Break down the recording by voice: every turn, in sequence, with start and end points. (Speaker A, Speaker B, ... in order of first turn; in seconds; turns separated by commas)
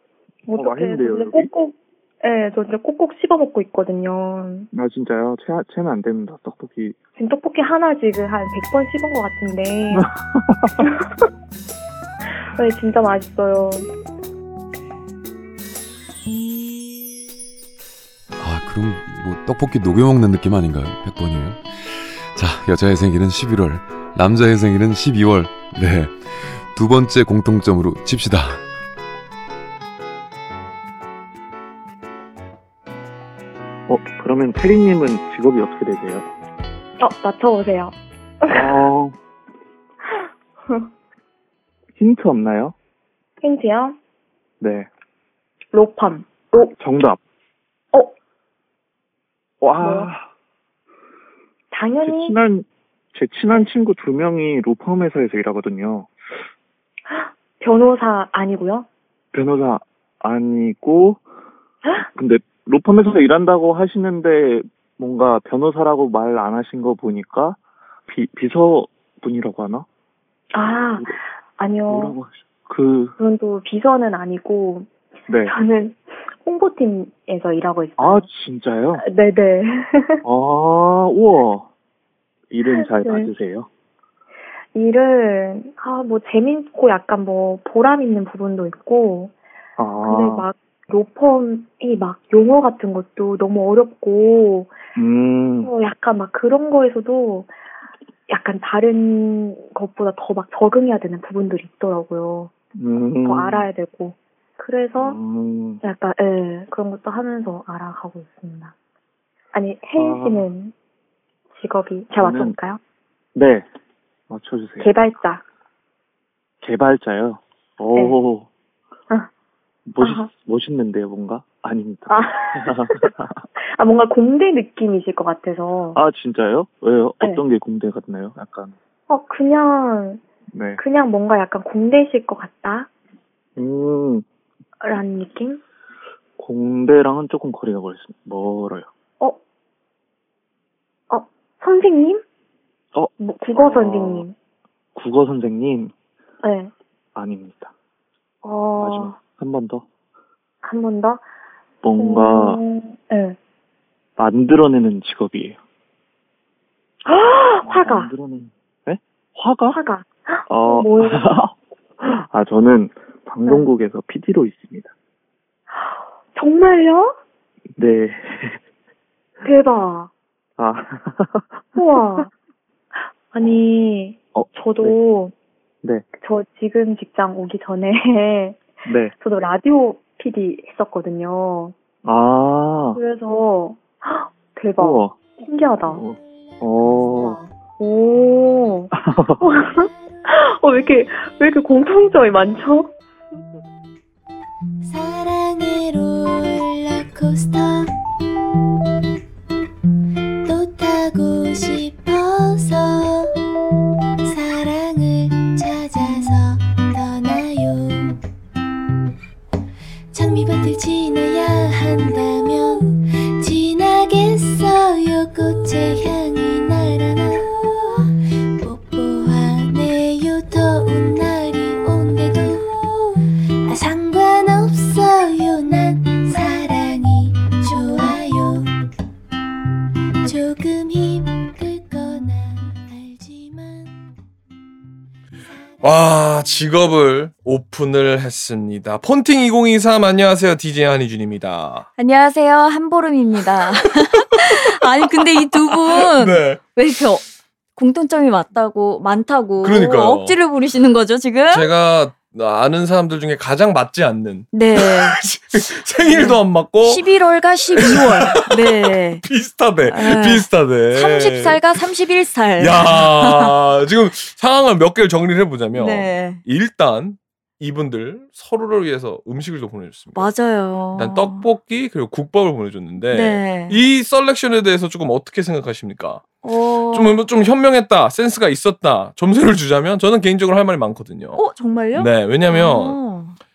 Speaker A: 0.5-4.7, Speaker B: 0.6-1.5, Speaker B: 4.7-7.0, Speaker A: 7.2-10.1, Speaker B: 9.9-10.9, Speaker A: 10.8-11.3, Speaker A: 12.5-13.9, Speaker C: 18.4-28.6, Speaker B: 33.9-36.2, Speaker A: 37.0-38.8, Speaker B: 38.5-39.2, Speaker A: 40.1-40.9, Speaker B: 42.0-42.7, Speaker A: 43.4-44.0, Speaker B: 44.6-44.9, Speaker A: 45.7-46.7, Speaker B: 46.8-47.2, Speaker B: 49.6-50.3, Speaker A: 49.8-50.1, Speaker A: 51.7-52.4, Speaker B: 52.0-56.1, Speaker A: 57.1-58.9, Speaker B: 59.3-61.2, Speaker B: 62.2-69.9, Speaker A: 70.5-72.2, Speaker B: 71.9-73.2, Speaker A: 73.2-74.9, Speaker B: 75.3-75.5, Speaker A: 75.5-78.3, Speaker B: 78.0-79.0, Speaker A: 79.0-80.2, Speaker B: 80.2-81.7, Speaker B: 82.5-83.7, Speaker A: 82.7-83.3, Speaker A: 84.7-89.3, Speaker B: 89.8-90.5, Speaker A: 90.0-94.8, Speaker B: 95.0-95.7, Speaker A: 95.6-97.5, Speaker A: 98.3-102.5, Speaker B: 102.8-103.7, Speaker A: 103.2-105.2, Speaker B: 105.0-105.8, Speaker A: 105.8-108.7, Speaker A: 109.5-110.7, Speaker B: 110.0-110.5, Speaker A: 111.5-112.8, Speaker B: 112.2-112.5, Speaker B: 113.3-113.7, Speaker B: 114.3-114.9, Speaker A: 114.8-115.4, Speaker B: 116.6-118.5, Speaker B: 119.9-123.4, Speaker A: 120.0-120.3, Speaker A: 122.1-126.0, Speaker B: 126.0-128.7, Speaker A: 129.1-130.2, Speaker B: 130.5-130.8, Speaker A: 130.8-132.9, Speaker B: 133.6-134.2, Speaker A: 134.8-135.6, Speaker B: 136.4-138.9, Speaker A: 141.1-142.2, Speaker B: 142.9-144.2, Speaker A: 143.2-144.3, Speaker B: 144.9-145.9, Speaker A: 146.4-146.7, Speaker B: 147.2-147.7, Speaker A: 148.4-149.2, Speaker B: 148.8-149.8, Speaker A: 150.6-151.2, Speaker B: 151.8-152.6, Speaker A: 152.0-153.4, Speaker B: 154.2-155.6, Speaker A: 157.1-158.1, Speaker B: 157.7-159.8, Speaker A: 159.7-161.3, Speaker B: 160.5-164.9, Speaker A: 165.7-167.1, Speaker B: 167.8-168.6, Speaker A: 169.4-170.1, Speaker B: 170.6-172.2, Speaker A: 171.8-172.3, Speaker A: 173.3-175.3, Speaker B: 174.3-175.0, Speaker A: 176.2-181.8, Speaker B: 178.8-179.1, Speaker B: 182.0-183.0, Speaker A: 182.9-186.0, Speaker B: 184.8-185.3, Speaker B: 185.9-187.4, Speaker D: 186.2-186.6, Speaker A: 187.1-192.9, Speaker B: 188.9-189.4, Speaker D: 194.8-197.9, Speaker D: 200.4-203.4, Speaker D: 204.2-208.2, Speaker D: 210.1-228.8, Speaker D: 230.2-234.0, Speaker E: 235.8-241.9, Speaker F: 242.0-247.2, Speaker E: 245.2-246.7, Speaker F: 247.8-251.7, Speaker E: 249.6-250.4, Speaker E: 251.5-257.1, Speaker F: 254.5-255.2, Speaker F: 256.1-259.2, Speaker E: 257.8-261.6, Speaker F: 259.9-263.5, Speaker E: 262.6-270.3, Speaker F: 265.8-266.4, Speaker F: 270.1-271.5, Speaker E: 270.9-276.4, Speaker F: 273.1-273.8, Speaker F: 276.4-277.2, Speaker E: 276.9-281.4, Speaker F: 281.4-283.4, Speaker E: 281.9-283.0